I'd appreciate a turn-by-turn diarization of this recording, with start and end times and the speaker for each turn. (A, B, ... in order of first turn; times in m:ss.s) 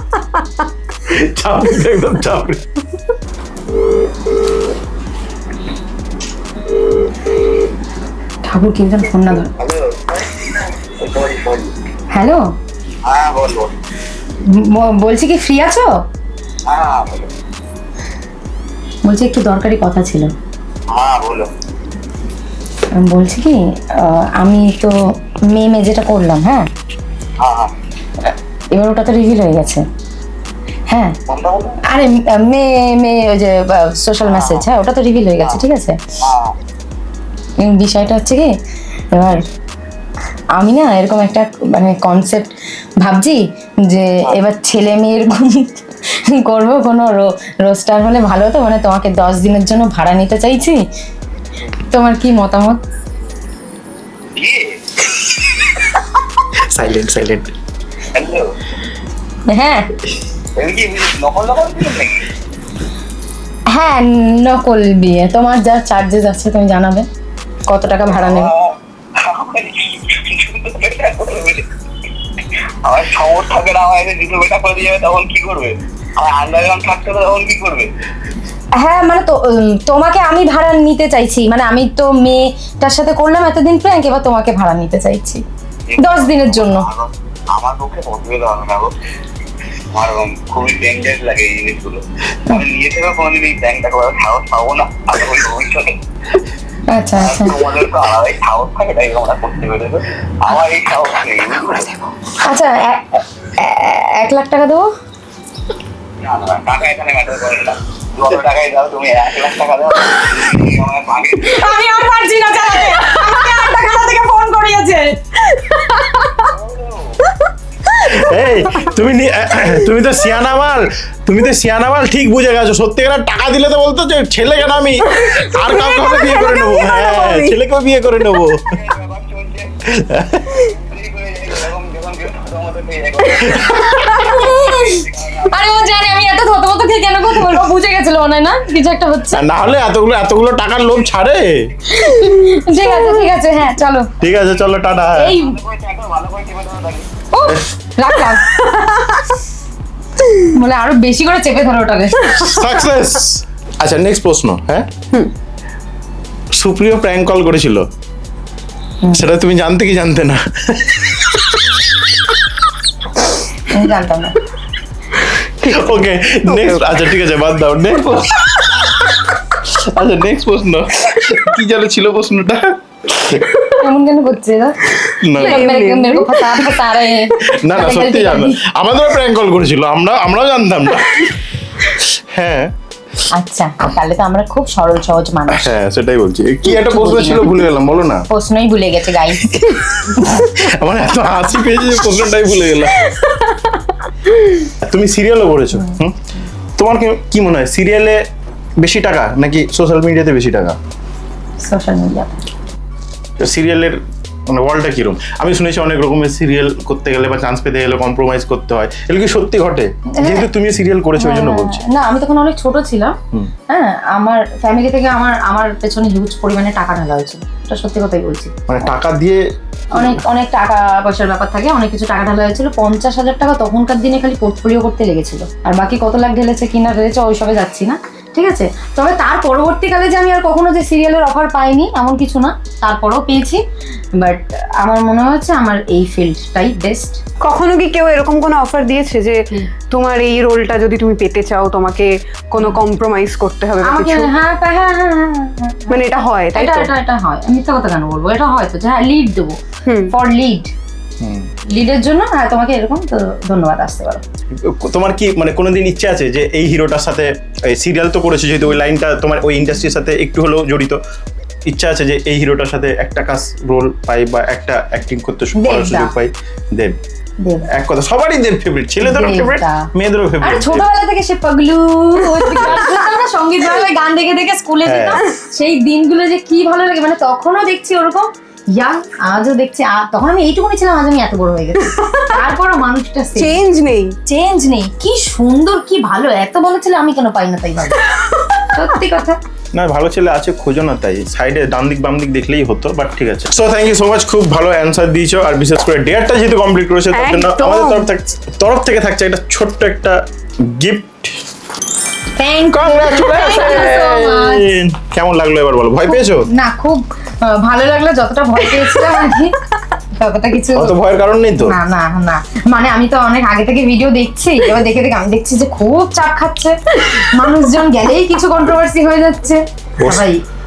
0:01.1-0:02.6 A
0:08.4-0:09.5 B
0:09.5-0:11.7 C
0:12.1-0:12.4 B
0:13.0-0:13.7 C
0:14.4-0:15.9 B
0:16.7-0:17.3 C
0:19.1-0:20.3 B
0:20.9-0:21.5 C
0:23.0-0:25.0 B
0:25.5-0:26.7 B
0:27.4-0:27.7 C
0:28.7-0:29.8 B
0:30.9-0:31.2 B
0:31.3-0:31.8 C
0:31.8-0:36.0 B
0:34.3-0:34.6 C
0:36.2-0:36.6 C
0:37.6-0:38.5 B
0:39.1-0:39.5 B
0:40.6-0:50.8 B
0:51.9-0:52.8 B
0:54.4-0:55.1 C
0:56.6-0:57.5 A
0:58.1-0:58.5 C
0:59.5-0:59.9 B
1:00.6-1:02.3 C
1:03.7-1:07.1 B
1:07.7-1:08.5 B
1:08.1-1:11.7 C
1:12.4-1:17.9 C
1:18.8-1:25.4 B
1:25.9-1:28.9 C
1:26.0-1:26.9 B
1:29.9-1:36.0 C
1:36.9-1:37.7 B
1:37.2-1:42.0 C
1:42.4-1:44.9 B
1:46.2-1:51.8 C
1:51.4-1:55.6 B
1:56.4-1:57.2 C
1:58.0-2:08.8 A
2:05.1-2:07.6 D
2:08.7-2:09.8 C
2:09.9-2:10.6 A
2:10.6-2:15.7 C
2:13.9-2:19.4 B
2:19.3-2:21.7 A
2:21.9-2:24.1 B
2:22.1-2:23.2 D
2:24.2-2:25.4 A
2:24.6-2:27.1 C
2:25.2-2:25.6 B
2:27.3-2:28.4 B
2:28.5-2:29.3 D
2:30.4-2:32.5 B
2:32.3-2:32.6 D
2:32.4-2:34.9 A
2:36.5-2:37.9 A
2:39.1-2:42.0 A
2:43.7-2:44.4 B
2:45.4-2:45.9 D
2:45.6-2:53.4 A
2:46.5-2:47.1 D
2:53.8-2:58.6 B
2:55.2-2:55.7 A
2:55.3-2:56.9 D
2:57.4-3:01.3 A
3:01.9-3:02.7 A
3:03.3-3:05.7 B
3:05.5-3:08.3 A
3:06.7-3:07.6 B
3:08.3-3:09.5 B
3:09.5-3:13.1 A
3:13.0-3:13.9 D
3:14.8-3:16.2 A
3:16.8-3:18.2 A
3:18.8-3:20.8 A
3:21.6-3:22.4 B
3:23.4-3:31.8 A
3:30.1-3:30.5 B
3:31.2-3:33.2 B
3:33.7-3:38.5 B
3:38.7-3:40.2 A
3:39.9-3:53.6 B
3:54.2-3:57.2 B
3:57.4-4:04.3 D
4:03.8-4:05.9 B
4:05.9-4:06.9 D
4:06.5-4:09.6 B
4:09.8-4:10.1 D
4:10.1-4:10.7 B
4:11.2-4:11.5 A
4:11.7-4:14.2 B
4:14.5-4:21.0 A
4:21.7-4:27.0 A
4:25.6-4:26.1 B
4:27.4-4:27.7 B
4:27.7-4:30.9 A
4:29.0-4:29.9 B
4:30.4-4:43.6 B
4:34.8-4:35.2 A
4:41.8-4:42.3 D
4:43.4-4:44.2 D
4:44.3-4:48.1 B
4:48.1-4:48.8 D
4:48.7-4:49.4 B
4:49.7-5:01.4 A
4:57.1-4:58.1 D
5:02.4-5:04.7 B
5:02.7-5:06.5 A
5:06.1-5:09.6 B
5:08.8-5:09.2 D
5:10.2-5:11.0 B
5:10.8-5:11.8 A
5:11.6-5:20.4 B
5:20.0-5:20.2 A